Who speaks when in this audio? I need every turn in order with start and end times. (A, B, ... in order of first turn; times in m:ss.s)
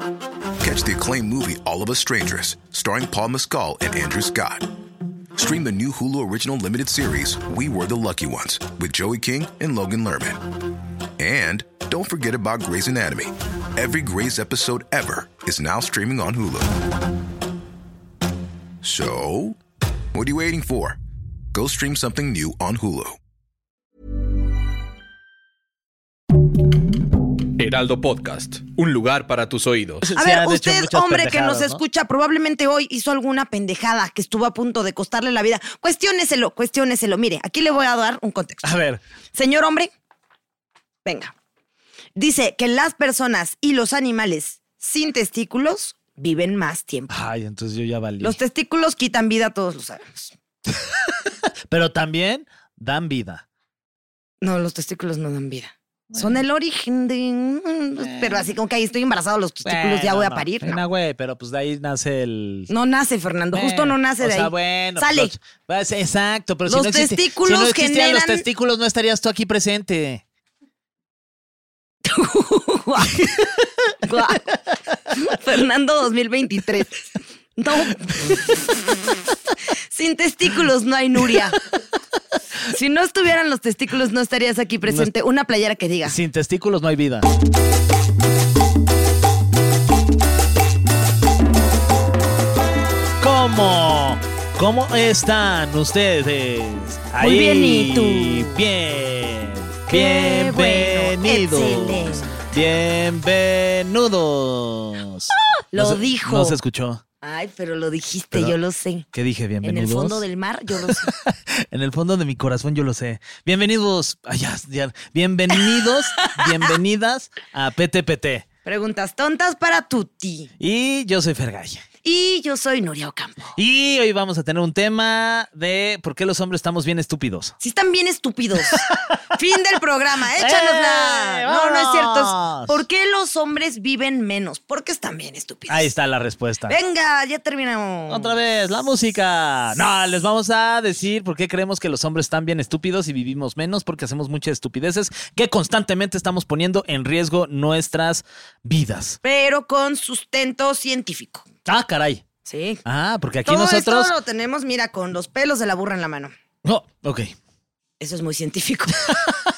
0:00.6-0:04.7 A
0:05.4-0:10.4 A
0:11.2-0:16.7 A
0:18.8-0:19.6 A
0:20.1-0:21.0 A
0:21.5-0:23.2 A
0:27.6-0:30.0 B
0:30.0-0:31.8 C
0:30.1-0:38.7 D
0:38.6-0:39.0 C
0:39.3-0:39.9 D
0:41.0-0:41.3 D
0:42.2-0:47.2 D
0:47.1-0:48.4 C
0:48.2-0:50.3 D
0:50.8-0:53.4 C
0:54.4-1:00.8 D
0:56.1-0:56.4 C
0:58.0-0:58.4 C
0:59.6-1:02.7 C
1:02.7-1:05.3 D
1:03.5-1:10.2 C
1:06.7-1:08.4 D
1:12.0-1:13.3 D
1:14.0-1:14.5 D
1:15.1-1:17.0 D
1:17.6-1:18.7 D
1:19.9-1:21.6 D
1:22.7-1:26.2 D
1:24.8-1:25.1 C
1:26.0-1:27.3 C
1:33.2-1:47.0 C
1:37.2-1:38.5 D
1:39.9-1:42.3 D
1:45.7-1:46.6 D
1:47.2-1:49.0 D
1:49.1-1:50.2 C
1:49.6-1:51.1 D
1:50.8-1:58.4 C
1:56.2-1:56.7 D
1:58.6-2:00.5 D
2:00.6-2:01.8 C
2:02.0-2:03.5 D
2:03.6-2:07.5 C
2:07.6-2:08.8 D
2:08.6-2:09.1 C
2:09.3-2:15.9 D
2:10.3-2:12.8 C
2:15.7-2:16.8 C
2:16.7-2:18.4 D
2:18.1-2:29.2 C
2:29.2-2:31.4 D
2:31.6-2:32.2 C
2:32.4-2:32.8 D
2:32.8-2:34.1 C
2:33.4-2:36.3 D
2:36.6-2:37.3 C
2:38.0-2:39.1 D
2:39.0-2:39.3 C